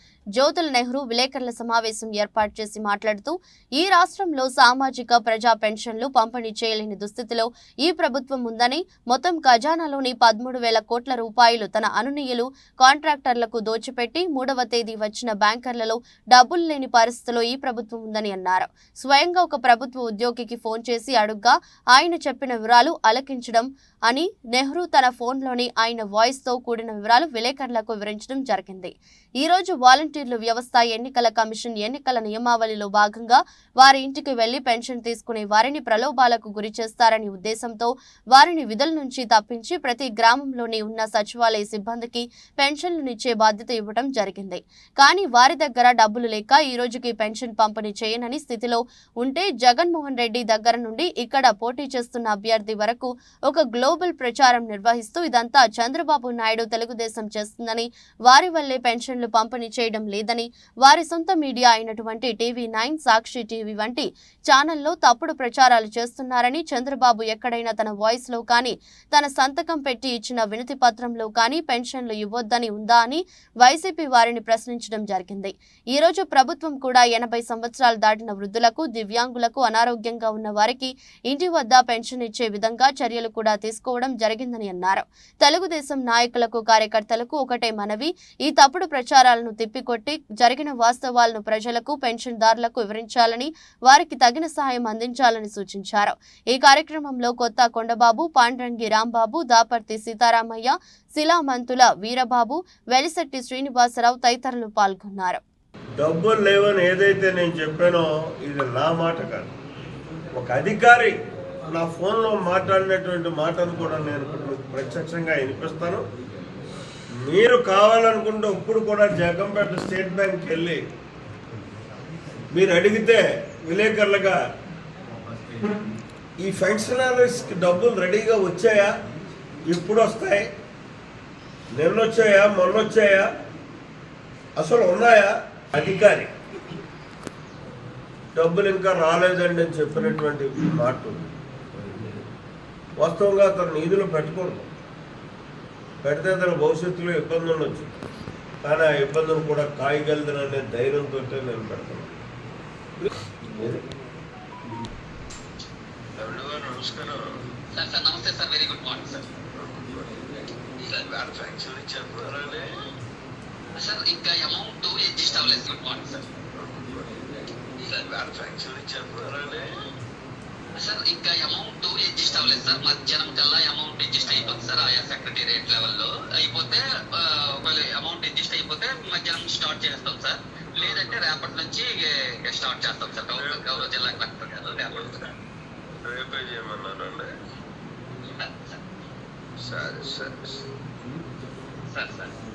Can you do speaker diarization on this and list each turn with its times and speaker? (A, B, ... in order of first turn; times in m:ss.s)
0:00.4-1:45.4 A
1:46.0-1:49.5 B
1:50.4-1:51.1 B
1:51.7-1:56.0 B
1:57.2-2:00.8 B
2:02.5-2:04.4 B
2:06.4-2:08.9 B
2:09.7-2:10.5 B
2:11.7-2:13.3 B
2:14.6-2:16.3 B
2:18.3-2:21.3 B
2:21.8-2:22.1 B
2:23.0-2:24.7 B
2:26.0-2:27.9 B
2:28.6-2:32.2 B
2:33.6-2:33.8 B
2:36.2-2:37.2 B
2:37.8-2:39.2 C
2:39.5-2:40.1 B
2:40.9-2:42.7 B
2:43.8-2:46.2 C
2:46.6-2:47.0 B
2:48.1-2:49.7 B
2:50.7-3:05.3 C
3:00.8-3:01.1 B
3:03.3-3:04.0 B
3:04.9-3:05.3 B
3:06.0-3:07.3 B
3:08.4-3:08.8 C
3:09.6-3:10.6 B
3:11.9-3:12.3 C